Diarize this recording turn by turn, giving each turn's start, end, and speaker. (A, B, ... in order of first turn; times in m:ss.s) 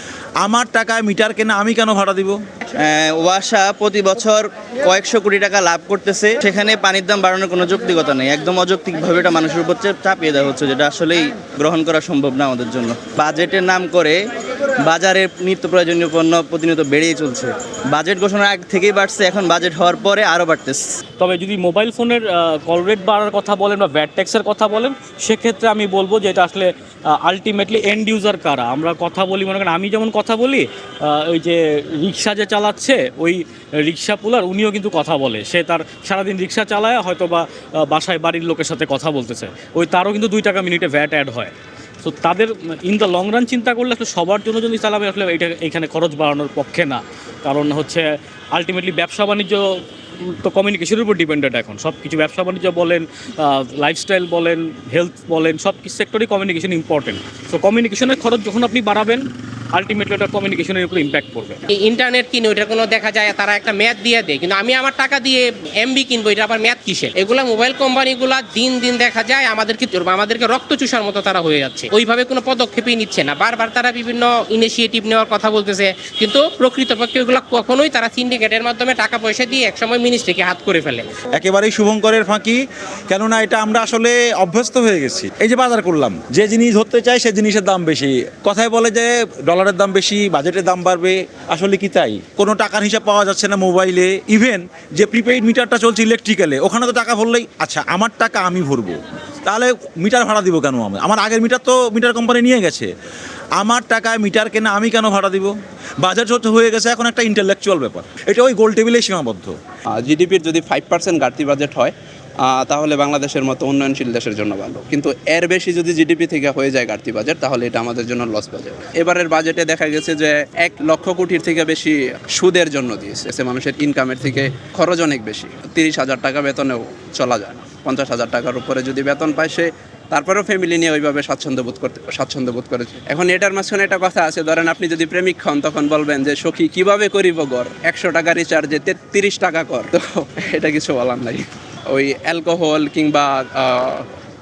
0:00.4-0:02.4 A
0:02.8-0:14.2 B
0:14.8-0:20.8 B
0:21.2-1:01.6 C
1:01.7-1:21.1 D
1:21.4-1:42.9 A
1:43.6-1:49.5 A
1:49.9-2:24.1 E